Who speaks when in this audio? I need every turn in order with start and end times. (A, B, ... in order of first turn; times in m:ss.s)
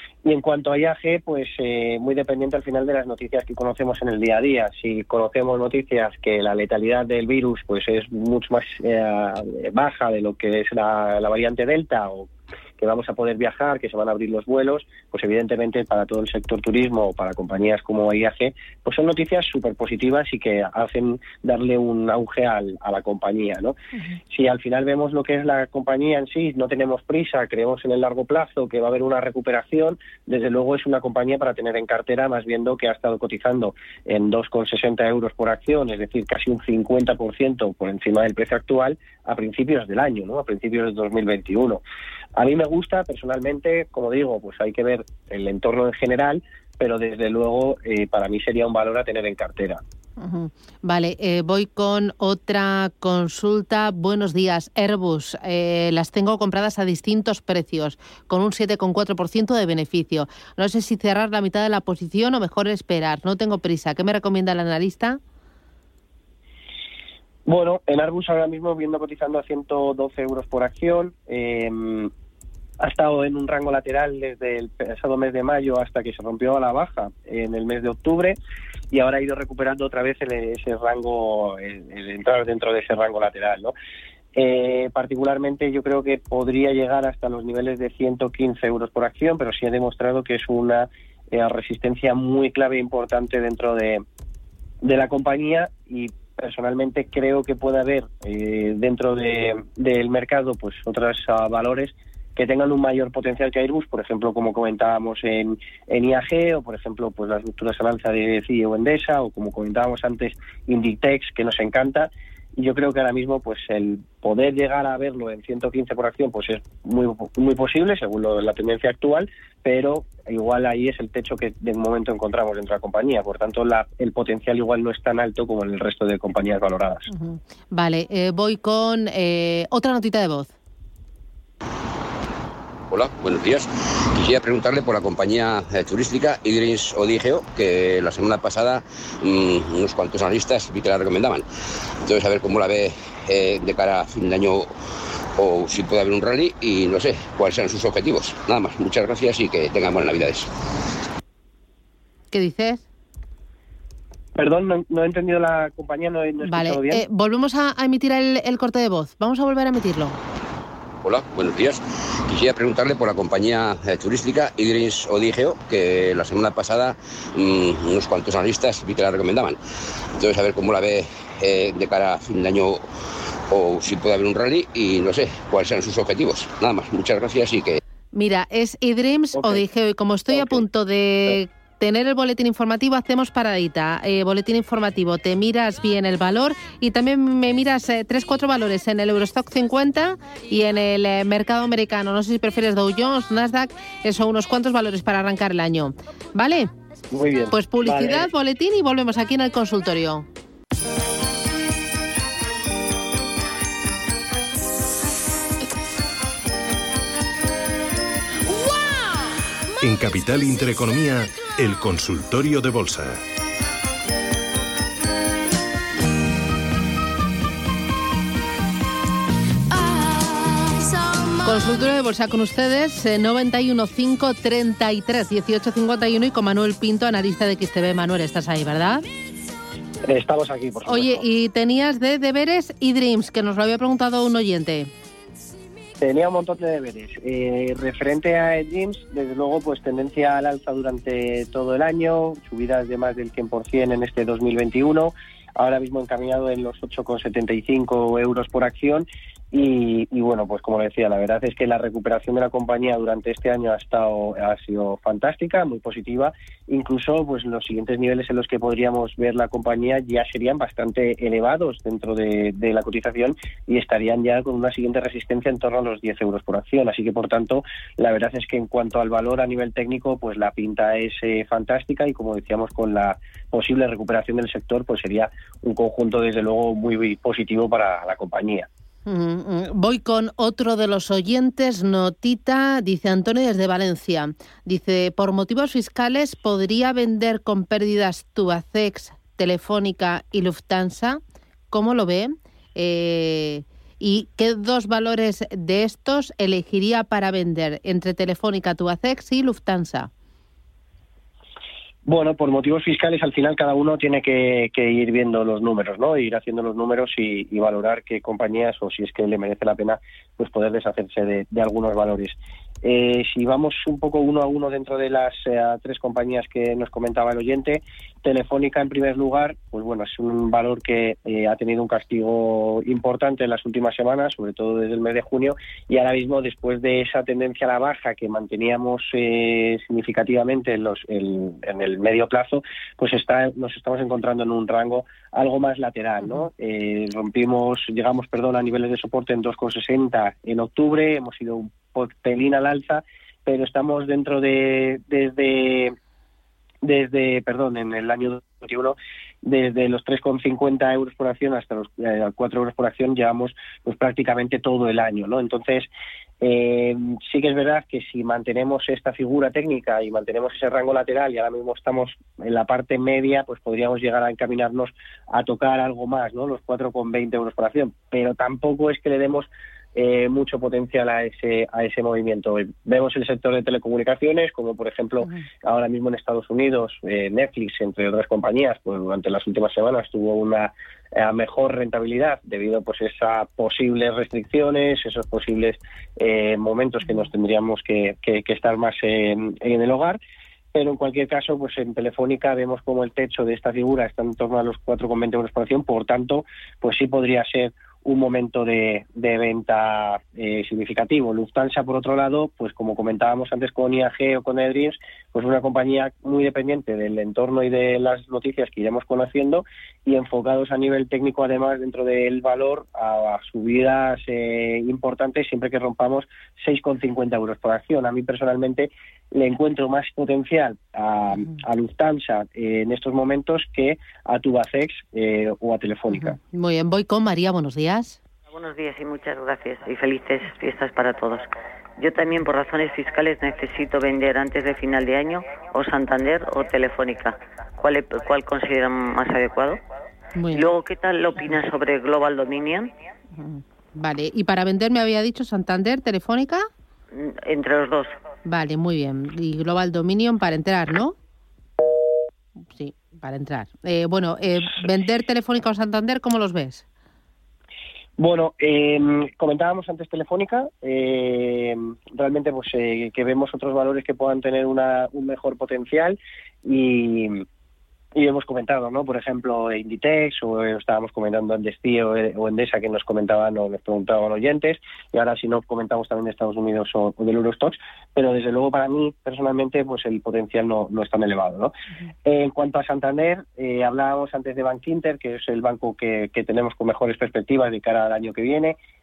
0:00.2-0:23.8 A
0:24.3-0:41.8 A
0:42.4-0:49.8 A
0:50.2-1:05.2 B
1:07.4-1:12.1 A
1:12.8-1:18.4 A
1:18.9-1:23.7 A
1:24.3-1:34.0 A
1:34.8-2:07.1 A
2:07.1-2:10.5 B
2:12.9-2:21.4 C
2:22.0-2:24.7 C
2:25.4-2:30.5 C
2:32.3-2:32.8 B
2:34.4-2:37.0 A
2:36.4-2:40.2 B
2:41.0-2:49.6 C
2:50.2-2:52.8 C
2:53.5-2:57.8 C
2:58.1-3:16.7 B
2:59.4-2:59.6 A
3:00.3-3:00.6 A
3:17.1-3:18.3 A
3:17.5-3:20.2 B
3:29.8-3:33.2 D
3:41.4-3:49.0 B
3:50.0-3:51.2 A
3:50.8-3:54.9 B
3:56.0-4:38.7 A
4:39.1-4:51.2 B
4:51.7-5:00.1 B
5:02.0-5:45.9 A
5:46.8-5:55.9 A
5:56.4-6:30.2 A
6:30.7-7:06.4 A
7:06.2-7:08.2 B
7:08.5-7:19.8 E
7:20.3-7:20.7 B
7:20.5-7:22.9 E
7:23.3-7:26.7 B
7:27.1-7:28.1 E
7:28.4-7:31.1 B
7:32.7-7:36.8 B
7:38.2-7:47.4 A
7:48.1-8:01.7 A
8:02.2-8:08.8 A